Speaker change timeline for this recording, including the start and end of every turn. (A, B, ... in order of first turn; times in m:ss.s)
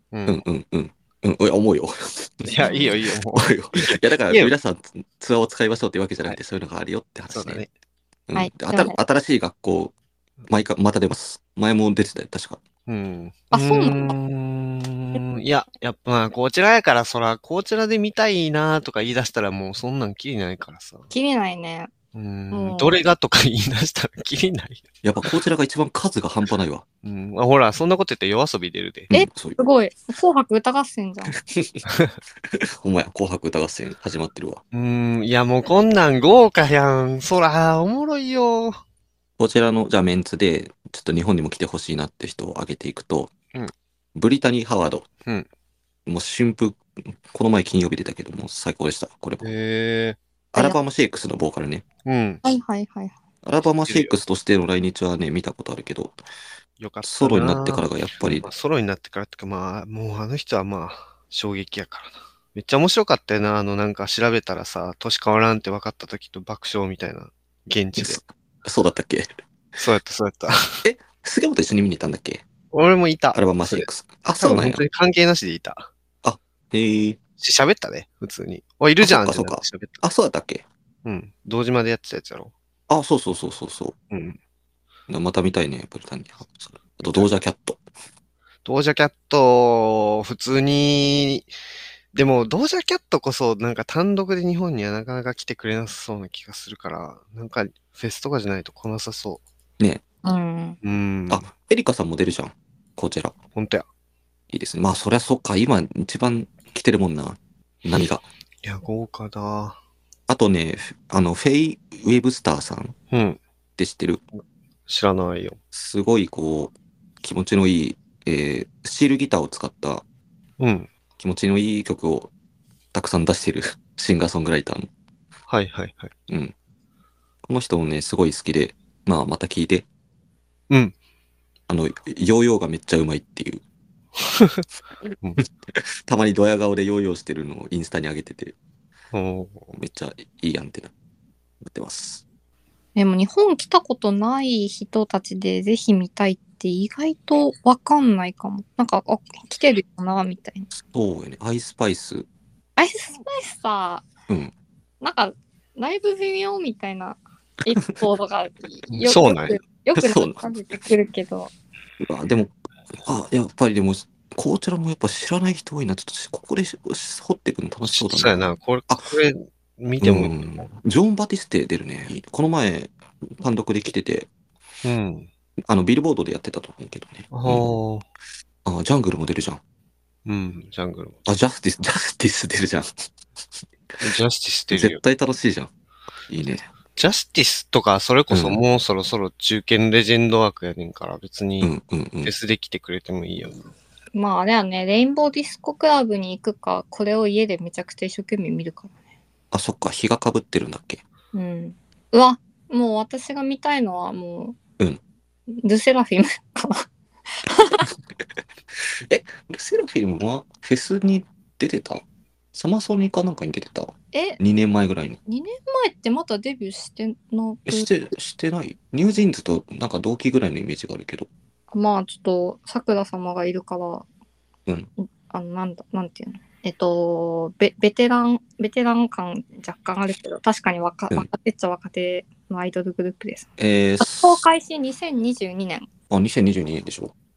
0:00.1-0:00.4 A
0:00.3-0:02.5 B
0:02.4-0:04.5 A
0:02.6-0:02.9 C
0:03.3-0:07.6 B
0:07.3-0:07.7 A
0:08.3-0:09.9 B
0:08.4-0:09.0 C
0:10.5-0:12.6 B
0:12.9-0:21.1 A
0:13.5-0:14.2 C
0:21.1-0:21.9 C
0:22.1-0:25.3 A
0:22.5-0:23.0 C
0:25.0-0:26.8 B
0:27.0-0:29.1 A
0:29.1-0:29.6 B
0:29.1-0:31.4 C
0:31.5-0:31.8 B
0:31.9-0:32.1 A
0:32.5-0:34.6 B
0:34.7-0:38.8 A
0:39.4-0:43.3 B
0:44.2-0:45.1 B
0:46.1-0:49.5 B
0:49.4-0:50.2 A
0:50.5-0:51.8 B
0:52.0-0:52.4 A
0:52.4-0:53.1 C
0:53.4-0:56.2 B
0:53.9-0:54.2 A
0:56.8-1:08.2 A
0:57.0-0:58.5 B
1:08.0-1:09.3 B
1:09.8-1:10.8 A
1:10.8-1:12.4 B
1:12.7-1:13.9 A
1:13.3-1:14.8 B
1:14.4-1:15.9 A
1:16.2-1:17.2 B
1:17.4-1:20.0 A
1:19.0-1:20.6 B
1:21.0-1:22.5 A
1:22.9-1:24.0 B
1:24.1-1:24.4 A
1:25.1-1:27.8 B
1:28.6-1:31.5 A
1:32.1-1:39.4 A
1:40.2-1:40.8 C
1:40.8-1:41.5 A
1:41.3-1:43.4 B
1:43.6-1:43.9 A
1:44.5-1:48.3 B
1:48.6-1:49.8 A
1:50.3-1:53.0 B
1:53.1-1:53.4 A
1:53.8-1:54.2 B
1:54.3-1:55.6 A
1:55.7-2:00.0 B
2:00.6-2:00.9 A
2:01.2-2:02.3 B
2:02.9-2:04.9 B
2:05.5-2:06.1 A
2:06.3-2:06.5 B
2:07.5-2:09.9 B
2:10.7-2:11.0 A
2:11.7-2:13.6 B
2:14.2-2:14.6 A
2:15.4-2:18.6 B
2:19.1-2:19.7 A
2:19.7-2:20.9 B
2:21.6-2:22.2 B
2:23.0-2:30.7 C
2:30.8-2:32.3 B
2:32.8-2:34.0 C
2:35.0-2:41.5 C
2:39.0-2:39.6 A
2:40.0-2:40.5 B
2:42.0-2:49.1 B
2:47.9-2:50.4 A
2:50.0-2:54.3 B
2:54.8-2:55.3 A
2:55.7-2:57.8 B
2:57.3-2:58.1 A
2:58.6-2:59.6 B
3:00.3-3:01.2 A
3:01.3-3:03.1 B
3:04.0-3:05.0 A
3:04.7-3:05.7 B
3:06.3-3:06.7 B
3:07.0-3:13.7 A
3:08.3-3:08.6 B
3:11.6-3:12.3 B
3:14.1-3:18.9 C
3:19.5-3:21.0 B
3:21.3-3:24.6 C
3:25.5-3:26.9 C
3:27.4-3:27.9 C
3:29.0-3:32.0 B
3:32.5-3:35.2 B
3:34.1-3:34.4 C
3:35.3-3:37.9 C
3:37.7-3:41.3 B
3:41.7-3:44.0 C
3:45.3-3:53.5 C
3:53.6-3:54.4 B
3:54.0-3:55.9 C
3:56.1-3:57.1 B